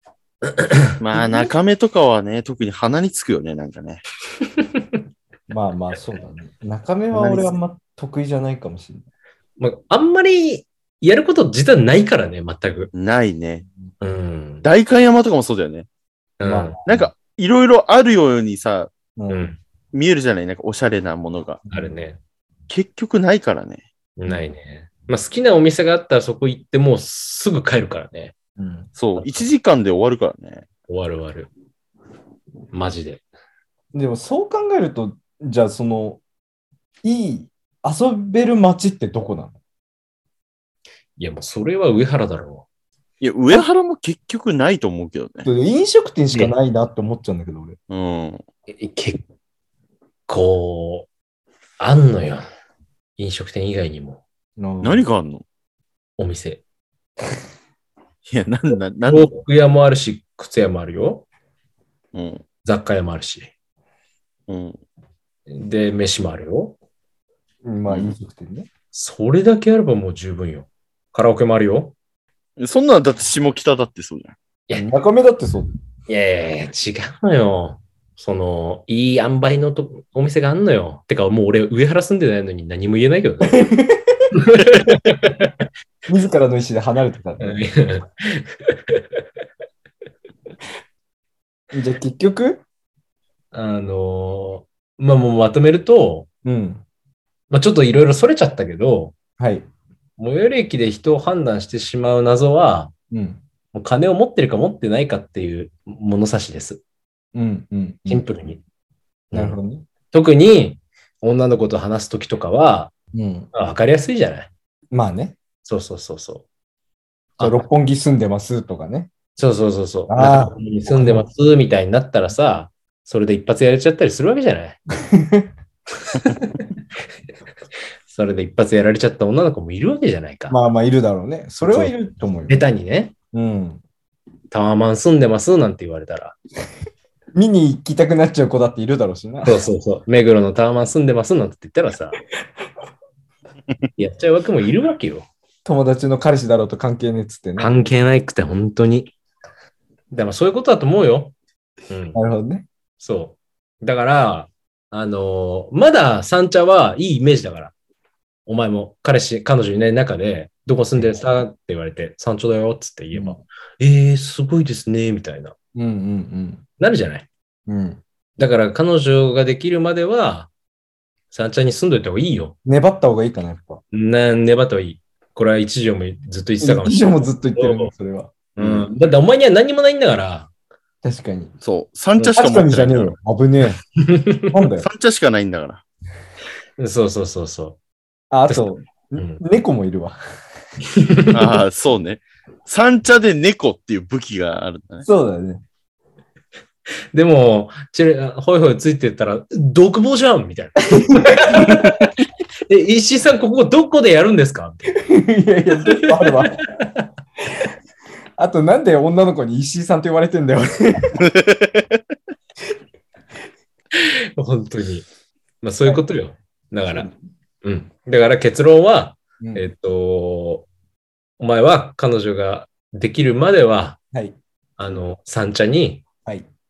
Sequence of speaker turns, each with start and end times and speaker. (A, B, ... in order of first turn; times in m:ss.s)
0:00.6-0:01.5 A
0:01.0-0:04.0 B
0:05.5-0:09.0 C
0:09.6-0:12.9 A
0:12.9-0:13.6 B
0:14.0-0:14.6 A
0:14.6-0:15.9 B
0:16.4-0:16.8 A
0:16.4-0:17.1 C
0:16.8-0:18.9 B
0:19.2-0:19.5 C
0:19.3-0:19.6 A
0:19.9-0:21.6 B
0:21.6-0:21.9 C
0:21.7-0:22.2 A
0:22.7-0:23.8 B
0:24.2-0:28.3 A
0:28.6-0:28.9 C
0:29.0-0:30.6 B
0:29.2-0:29.4 A
0:30.9-0:31.5 A
0:32.7-0:33.2 A
0:33.9-0:36.2 C
0:37.0-0:39.6 C
0:41.2-0:42.6 A
0:43.2-0:45.5 B
0:45.4-0:47.8 C
0:47.9-0:48.4 B
0:48.7-0:49.2 A
0:50.3-0:51.1 A
0:51.8-0:52.4 A
0:53.2-0:54.2 A
0:54.6-0:55.0 C
0:54.8-0:55.4 B
0:56.2-0:56.6 A
0:58.2-0:59.3 B
0:59.1-1:01.2 A
1:02.1-1:02.4 B
1:02.6-1:03.5 A
1:04.5-1:04.8 B
1:05.5-1:06.8 A
1:07.6-1:08.7 C
1:07.9-1:08.1 B
1:08.9-1:11.9 A
1:12.6-1:14.3 B
1:14.7-1:15.7 C
1:16.1-1:23.7 A
1:23.5-1:24.3 C
1:24.3-1:25.5 A
1:26.1-1:27.6 C
1:27.4-1:29.0 A
1:31.7-1:32.6 C
1:33.5-1:36.3 A
1:36.4-1:36.8 C
1:37.5-1:39.2 A
1:39.4-1:39.7 C
1:40.2-1:42.9 A
1:43.1-1:43.4 C
1:43.7-1:46.8 A
1:47.3-1:48.3 C
1:48.1-1:48.6 A
1:49.3-1:49.6 A
1:49.3-1:49.8 C
1:50.1-1:52.9 A
1:53.1-1:53.5 C
1:53.5-1:54.5 A
1:54.9-1:55.4 C
1:55.6-1:56.4 A
1:57.4-1:57.6 A
1:57.4-1:59.1 C
1:59.4-2:04.8 A
2:00.1-2:01.3 C
2:05.1-2:05.5 C
2:06.1-2:06.7 A
2:08.1-2:10.6 A
2:10.5-2:12.6 C
2:11.6-2:12.0 A
2:12.5-2:13.1 A
2:13.3-2:13.8 C
2:14.5-2:16.4 A
2:17.3-2:19.6 C
2:19.4-2:22.2 A
2:24.0-2:25.3 A
2:25.6-2:27.7 C
2:27.6-2:29.1 A
2:30.1-2:31.3 A
2:31.9-2:32.2 A
2:32.1-2:32.6 C
2:33.0-2:37.7 A
2:38.4-2:45.5 A
2:43.1-2:43.4 C
2:45.7-2:46.6 C
2:46.8-2:47.3 A
2:47.7-2:48.0 C
2:48.4-2:50.5 A
2:51.3-2:52.6 A
2:52.6-2:53.8 C
2:53.9-2:57.9 A
2:56.6-2:58.4 C
2:58.6-2:58.9 B
2:58.6-3:00.5 A
3:01.0-3:01.5 C
3:01.6-3:03.1 B
3:02.3-3:03.8 C
3:04.0-3:04.5 A
3:04.5-3:04.9 C
3:04.8-3:05.8 B
3:06.8-3:07.8 A
3:08.3-3:10.2 C
3:08.5-3:09.4 A
3:10.9-3:11.4 A
3:11.3-3:15.1 B
3:15.0-3:15.6 C
3:17.1-3:22.0 A
3:20.9-3:22.0 C
3:22.7-3:25.0 A
3:24.9-3:26.6 C
3:25.8-3:27.0 A
3:28.4-3:31.2 C
3:31.2-3:32.0 B
3:33.9-3:35.0 A
3:35.6-3:37.1 A
3:37.6-3:40.7 A
3:39.4-3:39.6 C
3:41.4-3:44.0 A
3:44.1-3:44.4 C
3:44.8-3:46.0 A